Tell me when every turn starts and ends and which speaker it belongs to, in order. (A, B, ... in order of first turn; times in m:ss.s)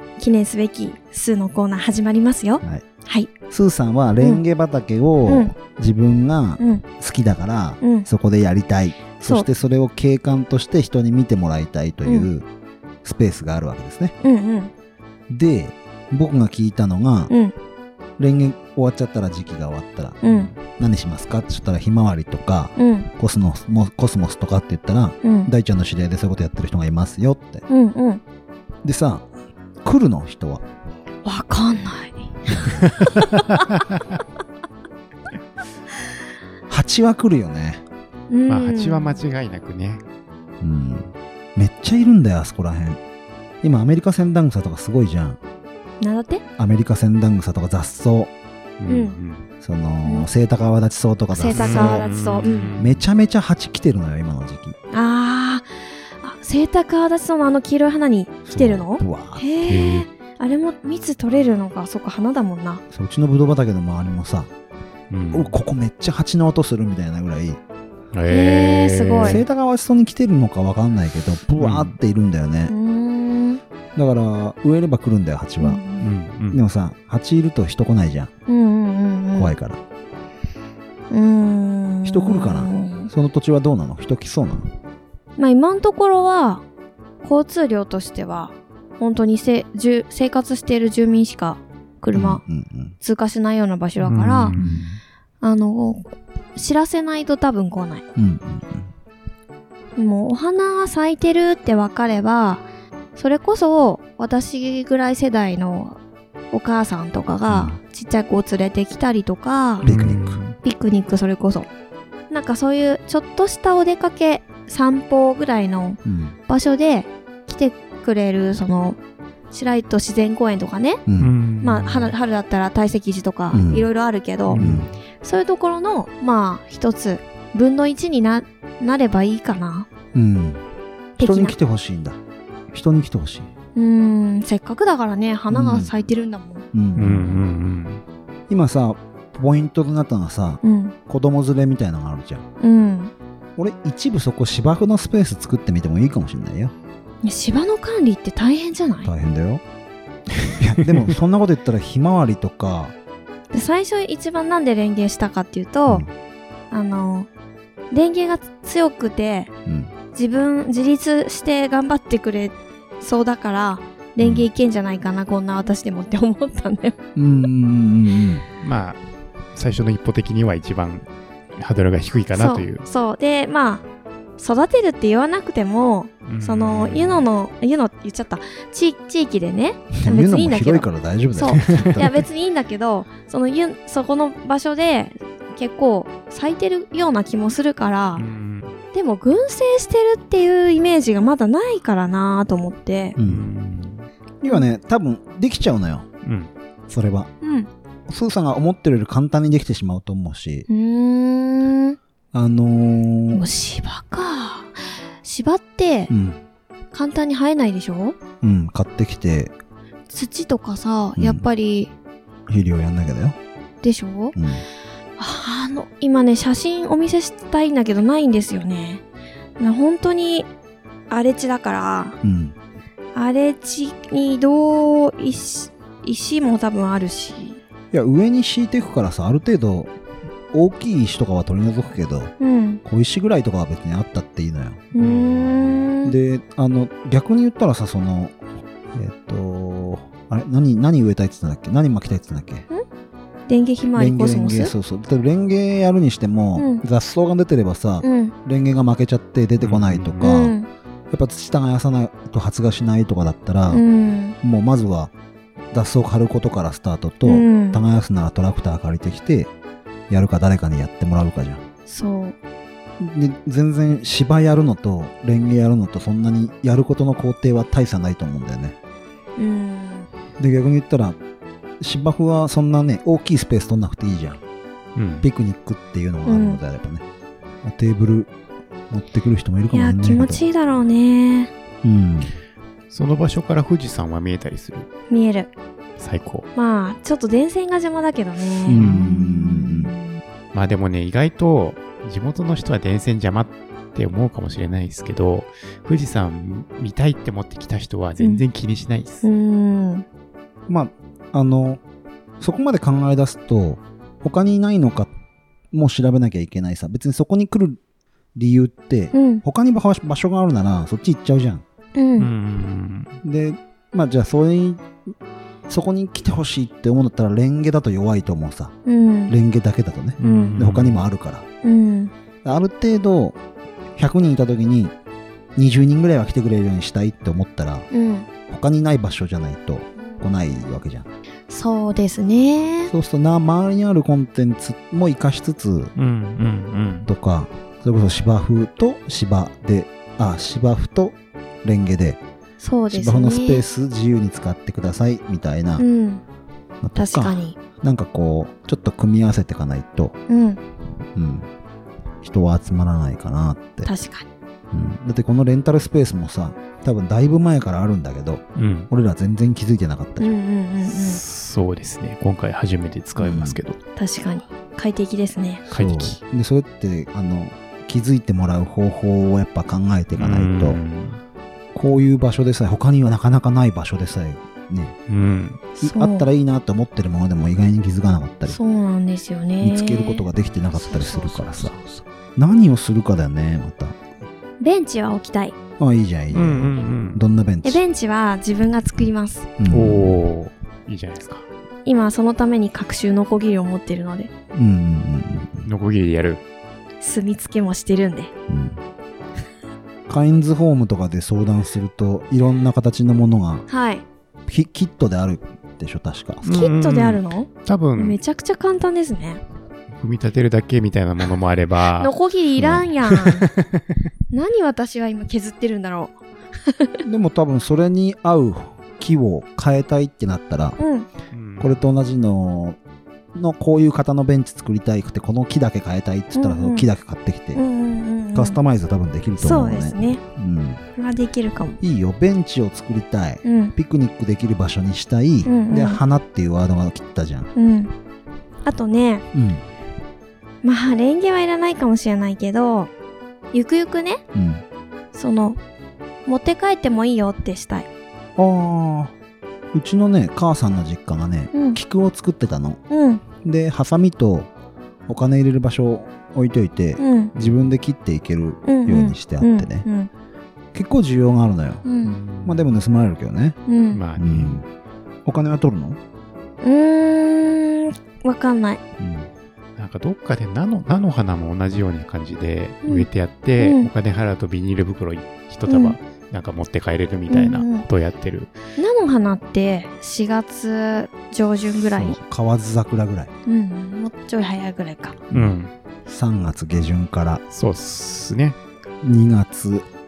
0:00.2-0:03.3 A
0:03.5-0:12.5 B
0:05.3-0:05.5 A
0:06.6-0:06.8 A
0:07.8-0:08.1 A
0:09.2-0:09.5 A
0:12.0-0:12.3 A
0:13.0-0:14.1 B
0:14.2-0:14.7 A
0:15.3-0:17.3 B
0:17.3-0:17.6 A
0:18.2-0:27.7 B
0:20.2-0:20.5 A
0:22.8-0:23.1 A
0:25.2-0:25.5 A
0:27.7-0:28.2 A
0:28.8-0:29.3 B
0:29.8-0:30.6 B
0:31.2-0:33.7 A
0:36.7-0:37.8 B
0:38.3-0:39.2 A
0:38.5-0:40.0 C
0:40.6-0:43.0 B
0:43.6-0:45.4 B
0:46.0-0:46.4 A
0:46.6-0:48.3 B
0:48.8-0:49.5 C
0:48.9-0:49.2 A
0:49.6-0:52.1 B
0:50.0-0:50.3 A
0:51.3-0:52.7 A
0:51.5-0:53.0 C
0:52.8-0:54.8 B
0:54.9-0:55.7 A
0:56.2-1:02.8 A
0:58.5-0:59.4 B
0:59.6-1:00.1 C
1:02.9-1:04.5 B
1:05.1-1:05.5 C
1:05.3-1:07.6 B
1:08.1-1:09.4 C
1:08.3-1:09.4 A
1:09.2-1:12.7 B
1:11.6-1:12.0 C
1:12.7-1:13.6 A
1:14.0-1:15.8 B
1:15.6-1:16.0 A
1:16.0-1:16.6 C
1:16.5-1:18.3 B
1:18.5-1:19.5 A
1:19.4-1:19.8 B
1:21.1-1:23.1 A
1:22.0-1:24.7 B
1:25.4-1:26.6 A
1:27.2-1:32.4 A
1:32.1-1:33.0 B
1:33.0-1:34.6 A
1:34.0-1:34.8 C
1:34.5-1:35.0 B
1:35.4-1:38.0 A
1:38.2-1:38.9 B
1:40.0-1:42.6 A
1:43.2-1:46.0 A
1:46.5-1:49.9 A
1:47.5-1:47.8 B
1:49.8-1:50.4 B
1:49.8-1:50.6 C
1:50.6-1:51.7 A
1:52.3-1:59.0 A
1:56.0-1:56.4 B
1:59.5-2:01.0 A
2:01.1-2:01.3 B
2:01.2-2:02.1 C
2:01.6-2:04.6 A
2:03.5-2:03.9 B
2:04.5-2:04.9 C
2:04.6-2:04.9 B
2:05.2-2:09.9 A
2:10.1-2:10.6 B
2:11.2-2:11.6 A
2:11.2-2:12.2 B
2:12.7-2:13.5 B
2:13.8-2:16.6 A
2:15.5-2:15.9 B
2:16.7-2:17.4 B
2:17.0-2:18.0 C
2:18.5-2:22.5 B
2:20.6-2:21.0 A
2:22.6-2:23.1 A
2:23.6-2:26.7 B
2:27.2-2:29.1 A
2:29.0-2:29.6 B
2:30.4-2:33.0 B
2:33.5-2:36.0 A
2:36.7-2:37.3 A
2:37.9-2:39.5 A
2:39.7-2:39.9 B
2:40.1-2:47.0 A
2:44.2-2:44.5 B
2:47.2-2:48.5 B
2:48.6-2:49.0 C
2:49.6-2:52.9 C
2:52.4-2:53.8 A
2:54.4-3:08.2 A
2:56.2-2:57.3 C
3:00.0-3:02.3 B
3:01.5-3:02.1 C
3:08.2-3:08.7 C
3:08.9-3:13.2 A
3:13.2-3:13.5 B
3:13.2-3:14.1 C
3:14.4-3:16.1 B
3:16.2-3:16.5 C
3:16.9-3:17.3 B
3:17.4-3:17.7 A
3:18.1-3:20.7 B
3:20.7-3:22.0 A
3:22.3-3:23.4 B
3:23.3-3:26.1 A
3:26.1-3:26.4 B
3:26.9-3:28.2 A
3:28.4-3:29.5 B
3:30.1-3:31.9 A
3:31.2-3:31.4 B
3:32.5-3:33.4 B
3:33.8-3:34.4 A
3:34.4-3:34.6 B
3:35.2-3:39.0 A
3:39.6-3:40.5 A
3:41.1-3:42.2 A
3:42.2-3:42.6 B
3:43.2-3:47.6 A
3:47.9-3:49.9 B
3:50.5-3:54.8 B
3:52.4-3:52.8 A
3:54.9-3:56.2 A
3:55.0-3:55.9 C
3:56.0-3:58.4 B
3:58.9-4:02.7 B
4:03.5-4:04.7 A
4:04.0-4:10.5 B
4:06.6-4:06.8 A
4:08.0-4:08.3 A
4:09.6-4:10.3 C
4:10.2-4:10.7 A
4:11.1-4:13.8 B
4:13.7-4:14.4 A
4:14.4-4:15.1 B
4:15.7-4:19.5 B
4:17.2-4:17.8 A
4:20.1-4:21.6 B
4:21.9-4:22.4 A
4:23.0-4:28.8 B
4:29.4-4:30.1 A
4:30.4-4:31.2 B
4:31.8-4:34.4 B
4:35.0-4:35.3 C
4:35.2-4:37.0 B
4:36.3-4:36.6 A
4:37.6-4:38.3 B
4:38.9-4:40.5 B
4:39.7-4:41.5 A
4:41.8-4:42.3 B
4:42.9-4:44.9 C
4:45.1-4:45.5 A
4:46.0-4:46.5 C
4:46.6-4:50.0 A
4:48.7-4:49.2 C
4:48.7-4:49.9 B
4:50.5-4:59.3 C
4:58.2-4:58.4 A
4:59.2-5:00.0 A
5:00.7-5:01.8 B
5:02.4-5:05.1 B
5:05.7-5:07.8 B
5:08.4-5:11.6 B
5:09.1-5:09.4 A
5:12.0-5:12.3 A
5:12.2-5:13.1 C
5:13.2-5:14.9 B
5:15.7-5:18.8 B
5:18.9-5:19.4 A
5:19.3-5:21.5 B
5:20.2-5:21.0 C
5:20.2-5:20.6 A
5:21.6-5:22.1 A
5:22.4-5:23.4 B
5:24.0-5:24.9 B
5:25.6-5:27.9 B
5:27.9-5:28.3 A
5:28.5-5:31.1 B
5:31.5-5:32.9 A
5:32.9-5:35.9 B
5:36.0-5:37.1 C
5:37.1-5:42.2 B
5:42.6-5:43.6 A
5:42.9-5:45.8 B
5:45.8-5:46.2 A
5:46.8-5:50.2 B
5:47.0-5:47.6 A
5:50.3-5:50.6 A
5:51.2-5:51.5 B
5:52.2-5:53.9 B
5:53.8-5:54.3 A
5:54.7-6:00.3 B
5:58.6-5:58.9 C
6:00.2-6:01.2 A
6:00.9-6:03.8 C
6:03.2-6:03.6 B
6:04.0-6:05.6 A
6:05.7-6:10.8 B
6:05.7-6:06.2 C
6:10.2-6:11.2 C
6:11.7-6:15.0 B
6:15.1-6:15.7 C
6:15.8-6:18.6 B
6:15.8-6:16.3 A
6:18.5-6:22.0 A
6:19.6-6:21.8 B
6:22.4-6:24.0 B
6:24.6-6:25.6 A
6:25.8-6:27.8 B
6:26.3-6:27.2 C
6:27.6-6:29.5 A
6:29.6-6:30.2 B
6:29.7-6:31.5 C
6:31.8-6:34.3 A
6:34.5-6:35.7 B
6:35.6-6:36.4 C
6:37.0-6:38.3 A
6:38.5-6:38.8 B
6:40.1-6:43.7 B
6:43.7-6:44.0 A
6:44.5-6:46.4 B
6:46.4-6:48.2 C
6:46.4-6:49.4 A
6:50.0-6:54.0 C
6:52.0-6:53.5 A
6:54.3-6:57.0 A
6:57.0-7:00.8 B
7:00.8-7:01.1 A
7:01.3-7:01.8 C
7:01.6-7:02.8 B
7:03.3-7:07.6 B
7:06.4-7:06.9 A
7:07.6-7:08.6 A
7:08.4-7:10.8 B
7:09.4-7:10.2 A
7:11.0-7:11.8 A
7:11.8-7:17.5 B
7:13.4-7:13.8 A
7:15.5-7:16.0 A
7:17.6-7:17.9 A
7:18.6-7:19.2 A
7:19.3-7:19.6 B
7:20.6-7:22.9 A
7:23.5-7:24.2 A
7:24.3-7:24.6 B
7:25.1-7:25.6 A
7:26.3-7:27.9 A
7:28.4-7:29.1 B
7:29.7-7:32.8 B
7:31.5-7:31.8 A
7:32.9-7:33.2 A
7:33.4-7:34.5 B
7:35.1-7:39.9 B
7:37.0-7:37.3 A
7:38.7-7:40.1 A
7:40.7-7:41.9 B
7:41.8-7:42.2 A
7:42.0-7:42.7 C
7:42.4-7:43.6 B
7:43.7-7:44.0 A
7:43.9-7:44.6 C
7:44.2-7:44.7 B
7:45.2-7:46.0 B
7:46.6-7:48.8 A
7:49.0-7:49.3 B
7:49.8-7:58.6 C
7:53.6-7:53.9 A
7:55.7-7:56.0 A
7:57.3-7:57.8 A
7:58.8-8:02.2 A
8:01.9-8:03.3 B
8:03.5-8:05.2 A
8:05.3-8:05.7 C
8:06.1-8:07.4 B
8:07.5-8:08.6 C
8:09.0-8:09.9 B